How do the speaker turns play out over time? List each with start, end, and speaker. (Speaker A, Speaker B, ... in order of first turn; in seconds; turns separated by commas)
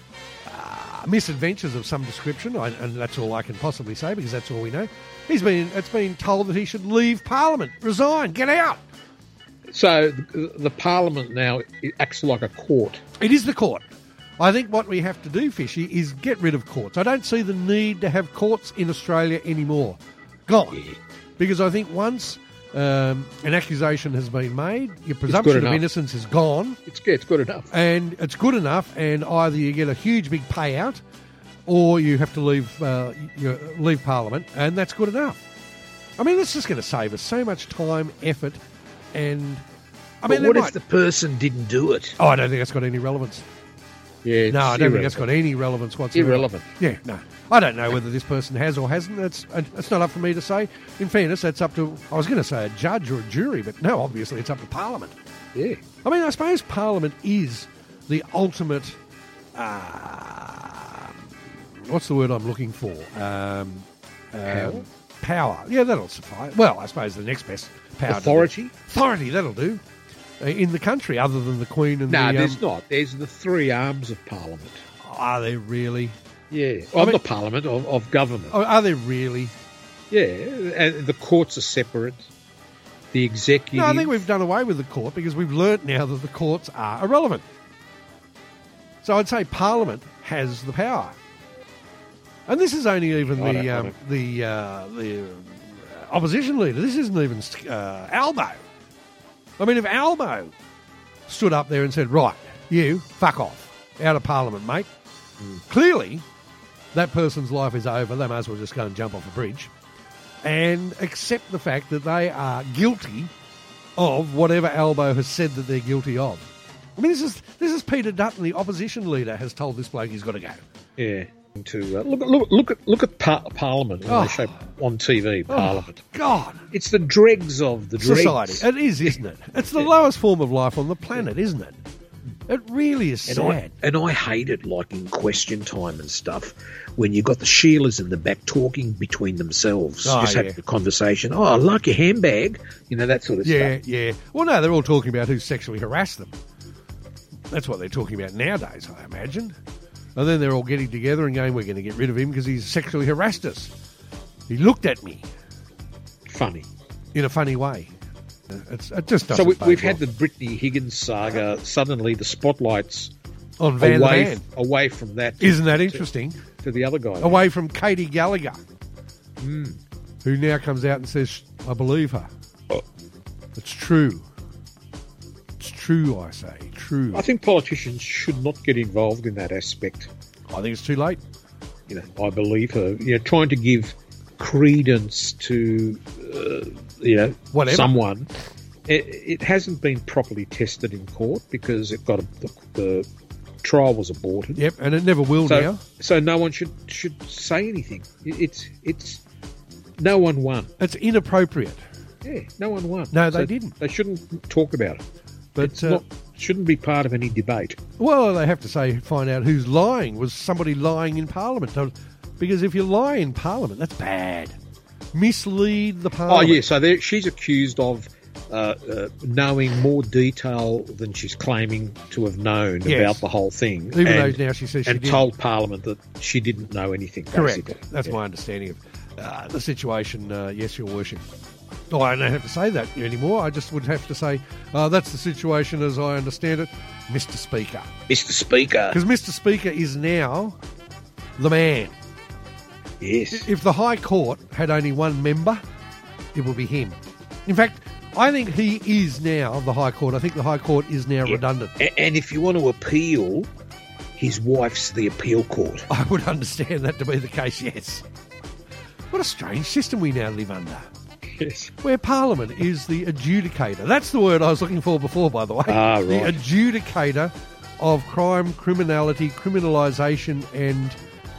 Speaker A: 0.4-8.8, Speaker B: 9.7-13.0, Speaker A: 13.2-13.8, Speaker A: 14.4-20.9, Speaker A: 21.4-26.8, Speaker B: 25.3-25.9, Speaker B: 26.9-27.7, Speaker A: 27.7-31.0, Speaker A: 31.7-35.4, Speaker A: 36.2-38.6, Speaker A: 39.1-39.6, Speaker A: 40.2-40.7, Speaker B: 40.2-42.2, Speaker A: 42.2-43.5, Speaker B: 44.2-45.2, Speaker A: 44.5-55.1, Speaker B: 46.1-46.7, Speaker B: 55.5-55.8, Speaker A: 56.0-59.0, Speaker A: 59.5-69.8, Speaker B: 64.5-64.8, Speaker B: 68.1-68.7, Speaker A: 70.4-72.6, Speaker B: 72.1-74.8, Speaker A: 75.0-76.2, Speaker B: 76.5-78.5, Speaker A: 78.5-79.5, Speaker B: 80.1-82.3, Speaker B: 83.1-84.2, Speaker A: 83.7-87.4, Speaker A: 89.0-91.2, Speaker A: 92.5-98.6, Speaker B: 93.3-93.9, Speaker A: 99.6-100.5, Speaker A: 101.3-104.9, Speaker A: 105.7-106.2, Speaker A: 106.9-109.7, Speaker A: 110.4-113.3, Speaker A: 114.0-116.4, Speaker A: 117.0-120.6, Speaker B: 121.0-126.0, Speaker A: 124.0-124.5, Speaker A: 125.5-126.6, Speaker B: 126.7-129.2, Speaker A: 128.0-131.8, Speaker A: 132.5-133.7, Speaker B: 133.3-143.7, Speaker A: 140.0-140.6, Speaker A: 143.4-146.3, Speaker A: 147.5-149.5, Speaker A: 150.2-153.7, Speaker A: 154.5-155.2, Speaker B: 156.3-156.7, Speaker A: 157.1-157.9, Speaker A: 158.5-160.0, Speaker B: 159.3-163.1, Speaker A: 163.6-164.4, Speaker B: 163.8-166.0, Speaker A: 165.4-166.4, Speaker B: 166.6-167.4, Speaker A: 167.2-168.6, Speaker B: 169.4-169.8, Speaker A: 170.2-172.3, Speaker A: 173.6-174.2, Speaker A: 175.6-177.2, Speaker B: 177.1-180.1, Speaker A: 180.5-181.2, Speaker B: 181.9-188.3, Speaker A: 187.5-187.9, Speaker B: 188.9-193.1, Speaker B: 193.6-194.6, Speaker A: 194.5-195.8, Speaker B: 195.4-199.2, Speaker B: 200.0-200.7, Speaker A: 200.8-201.8, Speaker B: 202.2-205.0, Speaker A: 203.1-203.8, Speaker A: 205.6-206.0, Speaker B: 205.6-207.8, Speaker A: 208.0-214.5, Speaker A: 215.1-216.7, Speaker B: 216.3-228.1, Speaker A: 222.8-223.2, Speaker A: 223.9-225.3, Speaker A: 227.3-231.2, Speaker A: 231.9-237.9, Speaker B: 238.1-239.0, Speaker A: 238.9-240.6, Speaker A: 241.4-241.9, Speaker B: 243.0-243.5, Speaker A: 243.3-245.6, Speaker A: 246.3-251.8, Speaker B: 251.3-253.5, Speaker B: 254.2-255.9, Speaker A: 255.9-258.0, Speaker A: 259.1-260.9, Speaker B: 261.4-261.7, Speaker A: 261.8-270.9, Speaker B: 265.7-266.4